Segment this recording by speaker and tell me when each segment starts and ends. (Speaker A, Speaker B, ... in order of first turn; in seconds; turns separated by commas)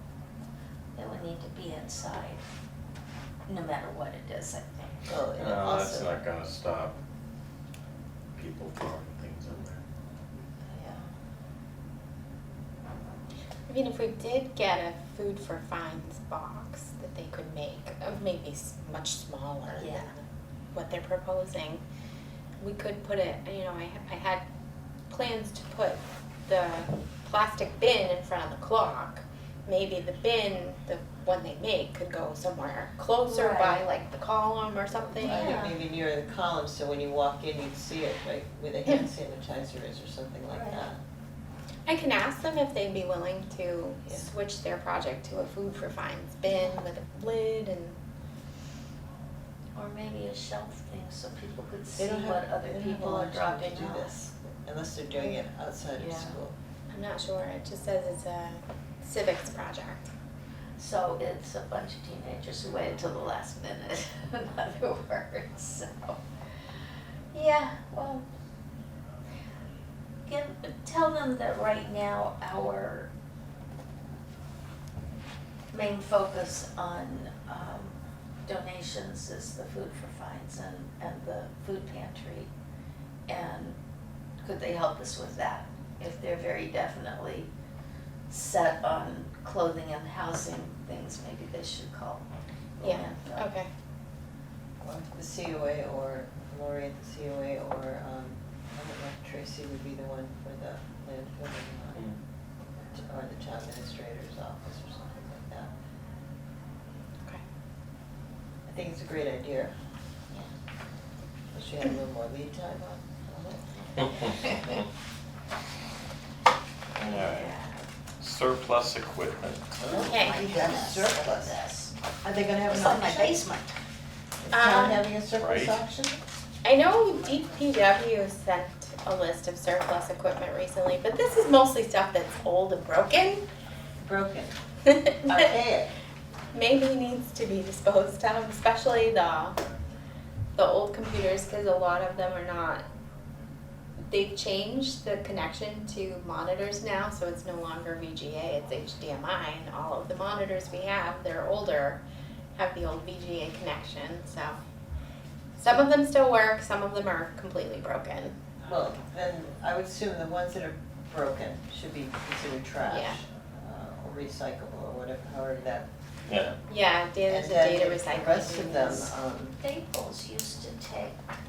Speaker A: 0.9-2.4, Speaker A: 3.5-5.0, Speaker B: 5.1-6.1, Speaker C: 5.4-7.0, Speaker C: 8.3-9.8, Speaker A: 10.6-11.0, Speaker D: 13.7-21.8, Speaker A: 19.7-20.1, Speaker D: 22.6-24.4, Speaker D: 25.1-35.6, Speaker A: 33.2-33.8, Speaker B: 35.2-41.0, Speaker A: 35.2-35.8, Speaker A: 40.5-40.9, Speaker D: 41.9-48.0, Speaker A: 49.8-54.1, Speaker B: 52.0-56.5, Speaker A: 56.0-56.4, Speaker D: 56.9-60.1, Speaker A: 60.8-66.2, Speaker A: 67.3-68.3, Speaker A: 70.3-73.1, Speaker A: 75.7-78.0, Speaker A: 78.5-82.5, Speaker A: 83.3-83.8, Speaker A: 84.4-87.5, Speaker A: 88.3-92.2, Speaker A: 92.8-93.5, Speaker D: 92.8-93.7, Speaker B: 94.8-102.0, Speaker B: 102.9-105.7, Speaker B: 108.7-109.7, Speaker B: 111.5-113.7, Speaker A: 113.8-114.8, Speaker C: 117.0-117.5, Speaker A: 117.1-117.7, Speaker C: 118.2-119.8, Speaker B: 119.8-121.6, Speaker A: 119.9-121.9, Speaker D: 120.0-120.5, Speaker B: 122.2-123.3, Speaker A: 122.6-123.8, Speaker B: 124.4-126.2, Speaker D: 124.5-125.1, Speaker C: 125.4-125.8, Speaker D: 126.6-133.4, Speaker B: 134.0-134.6, Speaker D: 134.9-135.4, Speaker B: 135.2-135.9, Speaker D: 136.5-139.6, Speaker D: 140.6-142.8, Speaker D: 144.1-152.0, Speaker D: 152.6-154.6, Speaker D: 155.6-158.3, Speaker B: 158.7-165.9, Speaker D: 162.8-163.2, Speaker C: 166.3-166.5, Speaker D: 166.7-169.1, Speaker B: 167.3-169.6, Speaker A: 169.6-171.2